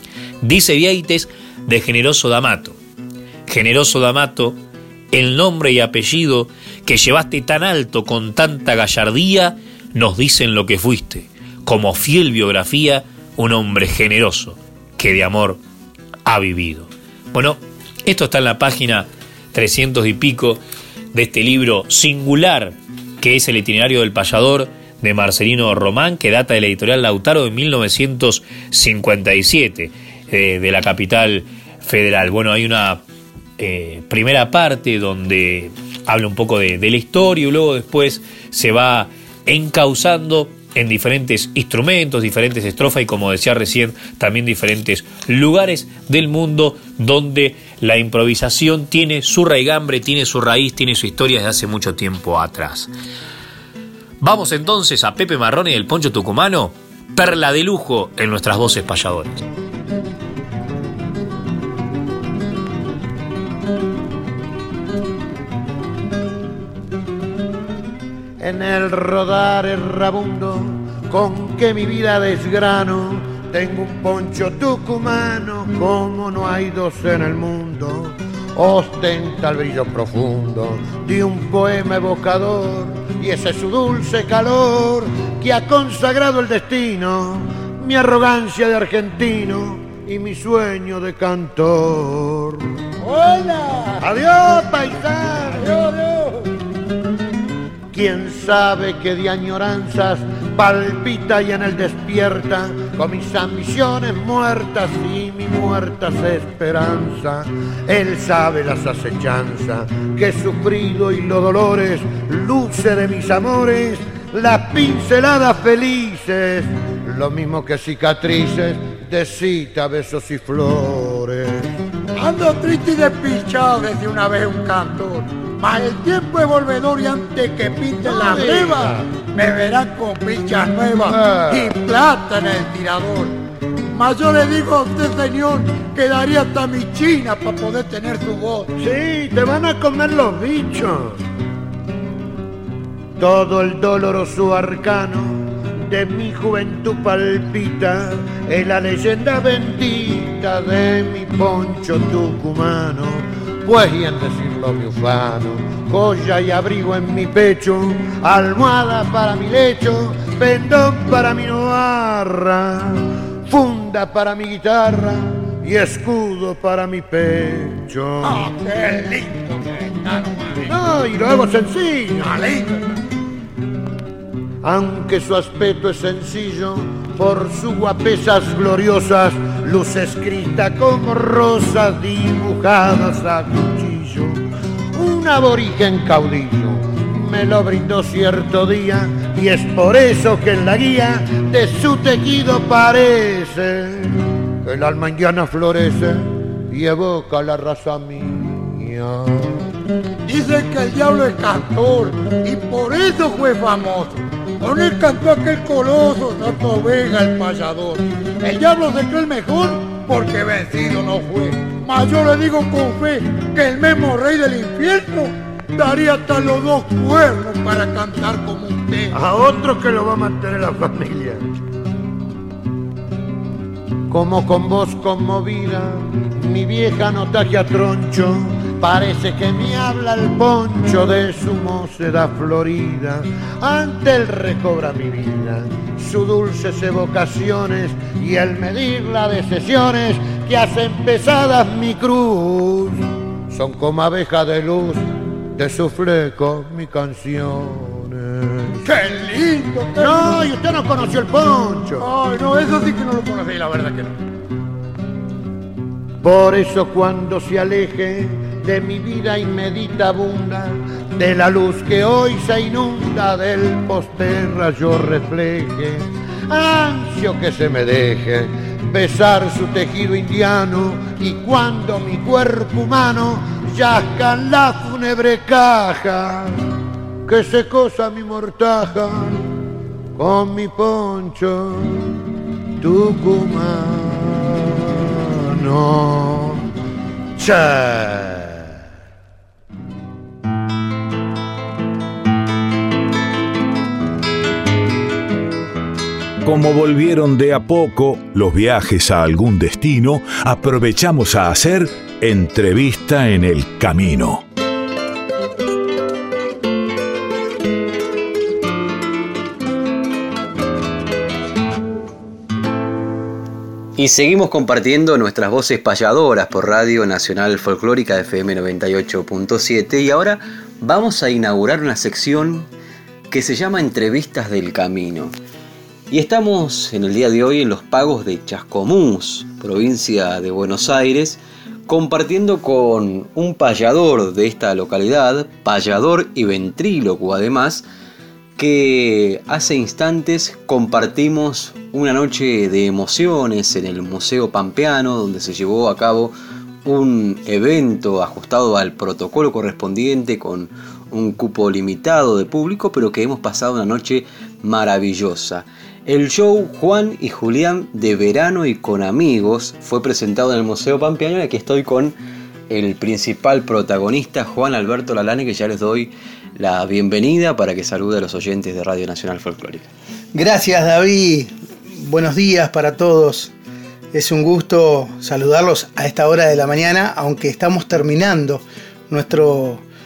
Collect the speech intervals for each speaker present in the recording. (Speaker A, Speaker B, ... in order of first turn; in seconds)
Speaker A: 0.4-2.8, 3.5-4.6, 5.1-15.6, 16.2-20.6, 21.1-33.0, 33.6-52.9, 54.2-59.3
Speaker B: 68.4-92.6, 94.0-95.9, 97.9-121.7, 128.1-129.0, 131.1-131.7, 138.8-141.2, 143.2-168.4, 170.7-172.5, 174.6-184.4, 184.9-199.5, 219.1-221.5, 224.1-248.6, 250.0-252.1, 256.2-276.6, 277.2-279.5, 280.1-282.1, 282.8-284.7, 285.5-286.6, 287.4-288.5
Speaker C: 93.0-94.0, 95.6-96.2, 122.2-133.4, 133.9-138.8, 168.3-170.7, 172.4-172.8, 200.2-219.1, 248.9-250.5, 252.0-254.1
Speaker D: 296.4-304.4
Speaker E: 314.0-322.7, 323.3-325.3, 326.1-337.8, 338.6-346.3, 346.8-362.1, 362.7-369.9
Speaker F: 370.3-373.5, 374.1-379.8